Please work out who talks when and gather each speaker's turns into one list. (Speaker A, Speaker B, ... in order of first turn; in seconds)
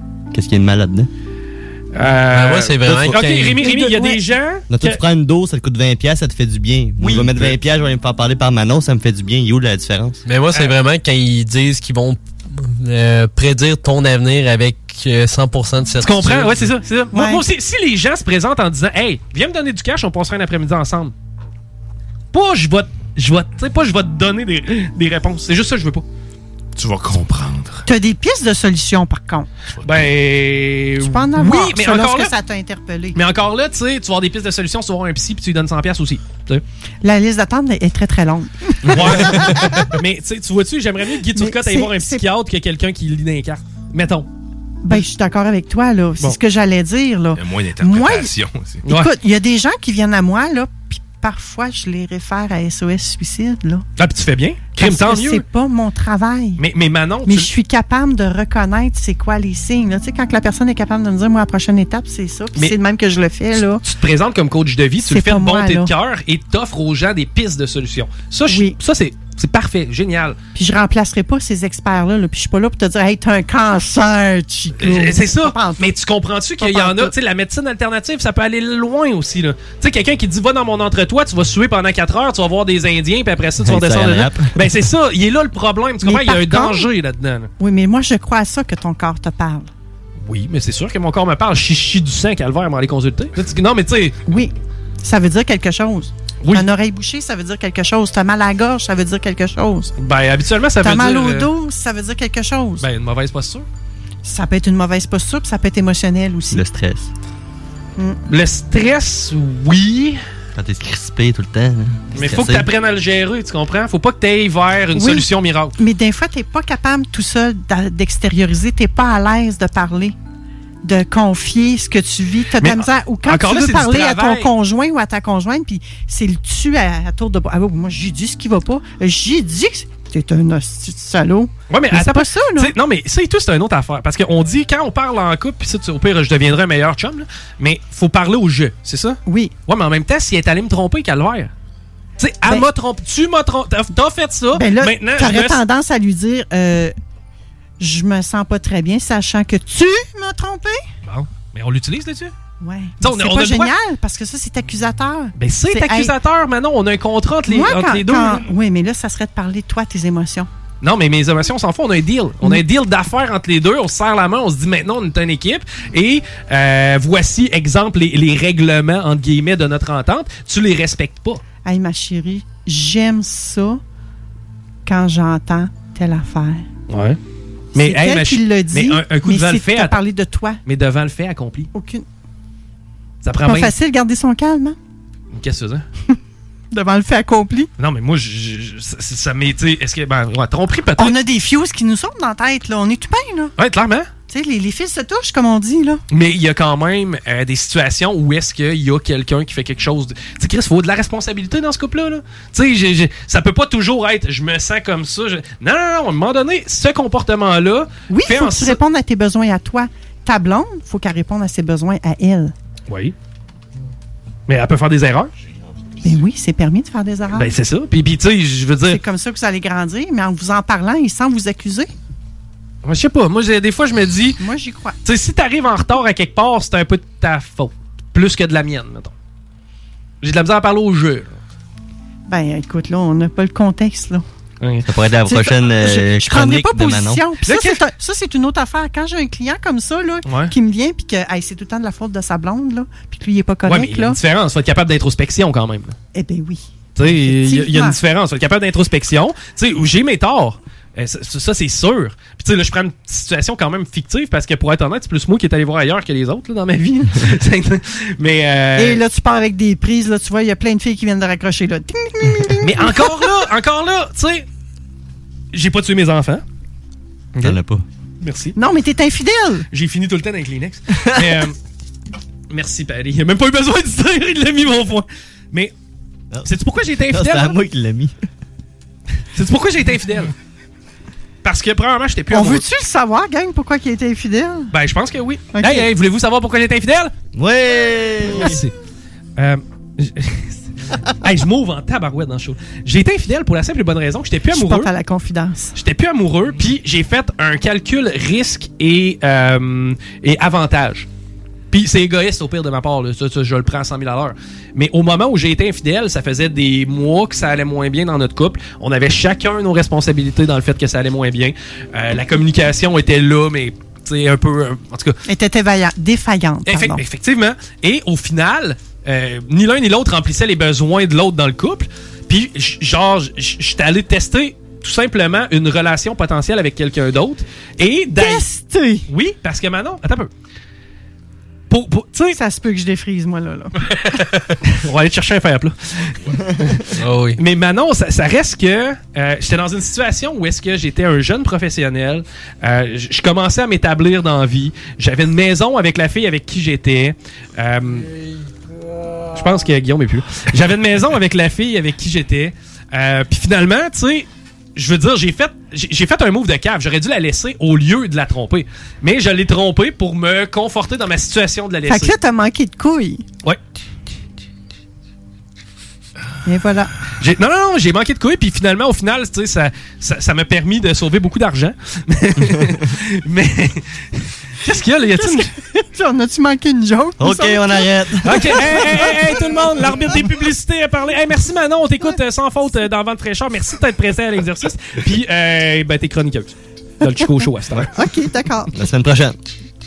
Speaker A: 0.3-1.1, 2.8-3.2, 4.7-10.2, 83.6-84.6, 106.5-107.1, 110.5-112.7, 234.8-237.2, 267.4-267.8, 277.1-278.1, 287.3-288.6, 377.2-378.8, 388.7-389.4
Speaker B: 1.9-5.0, 7.0-7.5, 16.0-21.1, 22.3-26.0, 29.8-32.3, 33.1-36.6, 38.9-44.3, 48.8-49.1, 54.0-55.4, 56.6-57.5, 63.8-70.4, 74.8-87.5, 90.2-94.2, 100.0-101.5, 102.8-103.7, 108.3-110.2, 112.1-115.7, 122.6-124.5, 131.7-141.5, 142.2-145.6, 151.0-152.3, 153.0-153.7, 155.3-158.4, 160.8-171.4, 176.9-177.2, 177.7-180.0, 180.6-181.7, 183.2-183.7, 185.3-185.8, 187.8-191.2, 193.6-194.1, 196.1-208.8, 212.9-213.1, 214.5-215.3, 217.3-219.0, 222.8-224.4, 225.0-229.1, 230.2-231.3, 234.6-234.9, 237.4-237.8, 240.2-240.5, 243.7-245.9, 246.9-259.0, 262.6-264.4, 265.5-266.4, 268.2-268.6, 269.7-271.5, 272.5-275.7, 276.4-277.6, 279.3-280.3, 281.4-282.6, 284.7-287.1, 288.3-288.7, 289.4-290.6, 291.2-294.9, 295.8-301.1, 301.7-315.2, 316.6-328.4, 329.1-330.3, 331.7-332.4, 334.6-336.8, 337.4-348.1, 349.3-362.1, 367.2-373.8, 374.6-375.5, 378.2-387.9
Speaker C: 2.3-3.6, 10.2-16.7, 336.9-337.4
Speaker D: 3.6-4.2, 17.1-17.4, 27.9-29.5, 31.0-33.2, 37.0-39.9, 41.3-42.2, 44.8-48.3, 48.8-53.8, 54.8-56.6, 57.2-63.8, 65.0-65.9, 68.5-68.8, 70.5-75.9, 76.6-77.1, 86.0-86.9, 87.6-89.7, 94.3-99.9, 100.8-102.8, 104.2-106.6, 114.9-115.2, 115.8-120.1, 120.8-132.7, 139.2-139.5, 144.5-146.9, 147.8-150.8, 152.6-156.1, 157.5-160.5, 171.6-173.8, 174.8-176.7, 177.7-180.6, 181.7-182.0, 183.4-184.8, 186.7-187.7, 191.0-193.5, 194.3-196.0, 208.1-212.5, 216.0-217.5, 218.9-221.9, 224.4-225.0, 232.3-234.2, 235.3-244.2, 246.1-248.0, 258.8-263.4, 268.6-269.6, 282.3-284.7, 285.5-285.9, 294.5-295.7, 315.2-317.0, 328.1-329.1, 332.3-333.8, 361.9-363.2, 366.4-366.9, 375.1-377.9, 378.5-379.1, 387.9-388.7
Speaker E: 26.8-27.9, 29.8-30.1, 47.4-48.8